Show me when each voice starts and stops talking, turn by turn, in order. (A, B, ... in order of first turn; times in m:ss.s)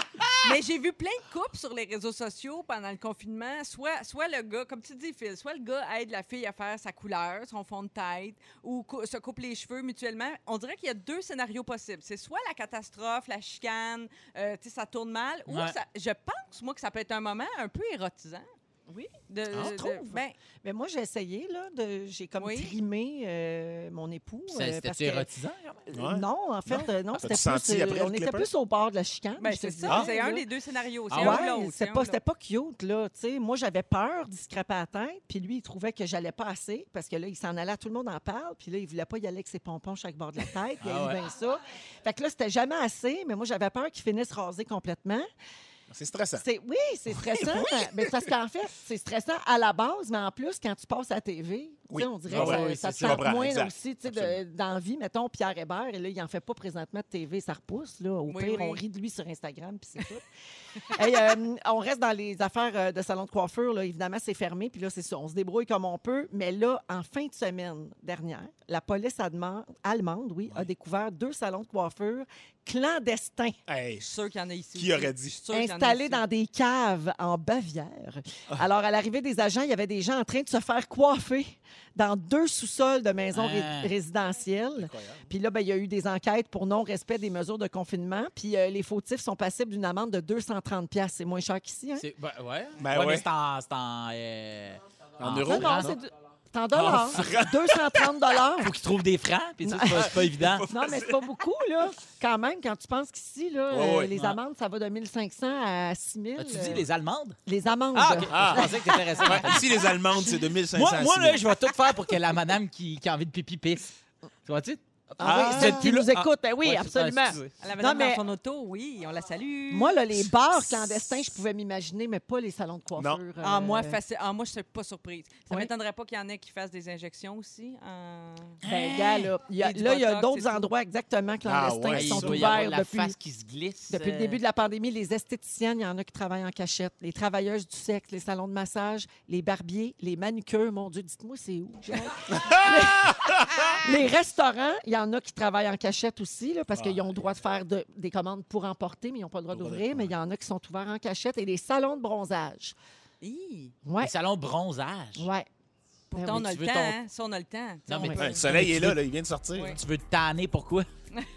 0:00.4-0:18.5 A
0:15.5-0:15.7 B
0:18.9-0:25.3 C
0:19.3-0:20.3 A
0:19.5-0:19.8 D
0:22.4-0:22.7 A
0:24.5-0:25.8 B
0:25.9-0:30.5 C
0:25.9-0:28.5 D
0:29.4-0:32.2 A
0:31.1-0:31.4 B
0:31.1-0:45.2 C
0:40.8-0:41.2 B
0:45.9-0:46.4 D
0:46.4-1:00.2 C
0:47.2-0:48.1 D
0:51.9-0:54.4 D
0:52.3-0:53.2 B
0:58.3-0:58.8 A
1:00.9-1:13.6 C
1:13.7-1:14.0 D
1:14.0-1:16.2 A
1:14.7-1:15.4 D
1:15.5-1:32.0 C
1:23.3-1:23.9 B
1:24.8-1:25.3 D
1:32.0-1:35.9 B
1:32.8-1:33.3 D
1:35.2-1:36.0 D
1:35.4-1:38.7 C
1:36.7-1:37.4 B
1:36.8-1:38.3 D
1:38.6-1:40.7 B
1:39.6-1:40.2 C
1:39.9-1:41.2 D
1:40.7-1:46.8 C
1:43.7-1:44.1 D
1:46.4-1:47.4 B
1:47.4-1:49.5 C
1:47.9-1:49.8 B
1:48.3-1:51.4 D
1:50.7-1:53.9 B
1:54.4-1:57.5 B
1:55.2-1:58.2 C
1:55.2-1:55.9 D
1:57.6-2:00.0 A
1:59.7-2:04.0 C
2:03.0-2:03.2 D
2:03.4-2:08.6 A
2:08.6-2:09.3 B
2:08.6-2:13.1 C
2:09.6-2:10.7 A
2:11.4-2:12.7 D
2:11.9-2:14.4 B
2:13.9-2:32.7 C
2:22.3-2:23.7 D
2:26.7-2:27.1 D
2:29.5-2:30.1 D
2:33.2-2:33.7 A
2:33.8-2:34.1 C
2:34.0-2:35.3 B
2:35.2-2:35.5 C
2:36.1-2:38.5 A
2:36.1-2:36.4 C
2:36.2-2:37.0 B
2:37.9-2:39.0 B
2:37.9-2:38.2 C
2:38.1-2:39.8 D
2:39.7-2:40.9 B